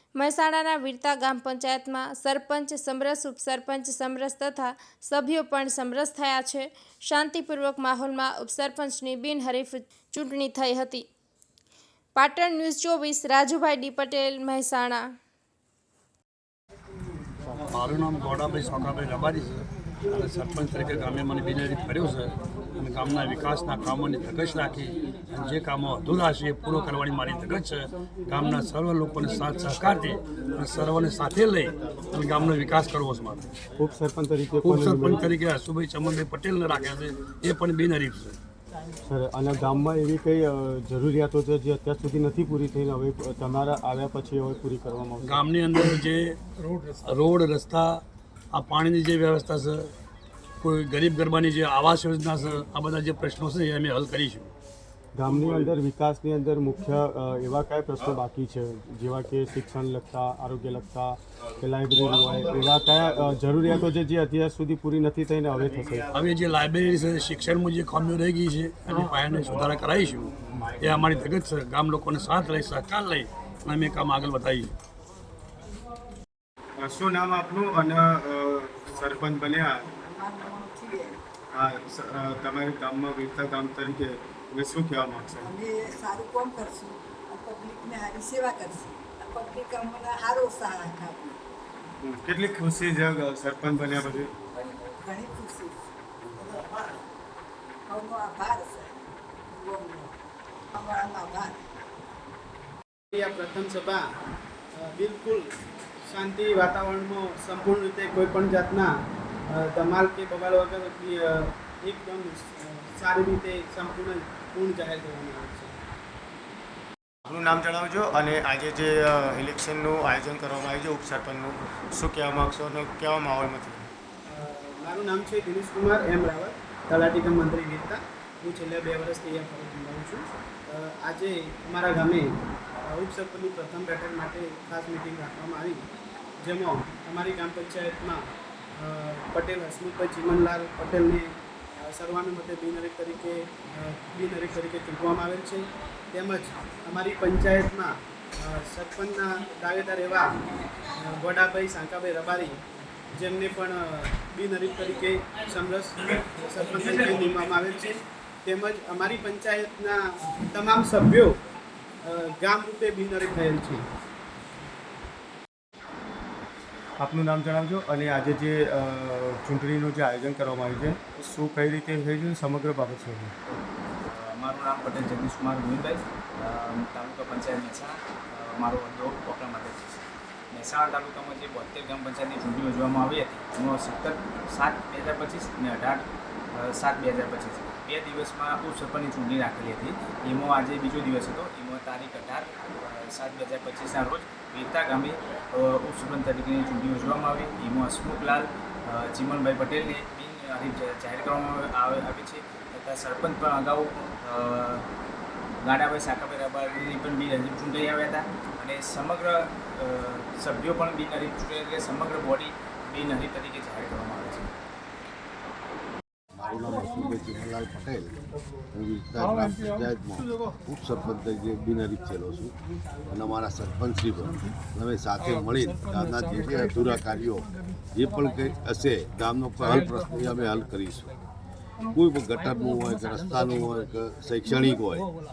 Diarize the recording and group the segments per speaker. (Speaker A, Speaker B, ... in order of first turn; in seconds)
Speaker A: 0.1-11.1, 12.1-15.1
Speaker B: 17.7-33.5, 34.6-38.3, 45.2-49.9, 50.6-54.5, 66.1-74.7
Speaker C: 33.8-35.3, 39.0-45.4, 55.1-66.1
Speaker D: 76.8-79.8, 81.5-85.4, 92.0-94.3, 117.3-123.9, 167.0-173.3
Speaker E: 79.9-81.2, 85.3-91.4, 94.8-95.8, 97.9-100.1, 100.7-101.6
Speaker F: 103.1-104.0, 104.7-105.5, 106.0-108.9, 109.5-115.7, 124.3-132.3, 132.8-135.8, 136.4-138.2, 138.8-150.4, 151.0-152.5, 153.1-160.0, 160.5-161.3, 162.0-163.8
Speaker G: 173.5-179.9, 180.5-186.0, 186.6-204.8, 205.6-214.5
Speaker H: 216.3-218.2, 218.7-222.5, 223.1-231.1, 231.9-235.1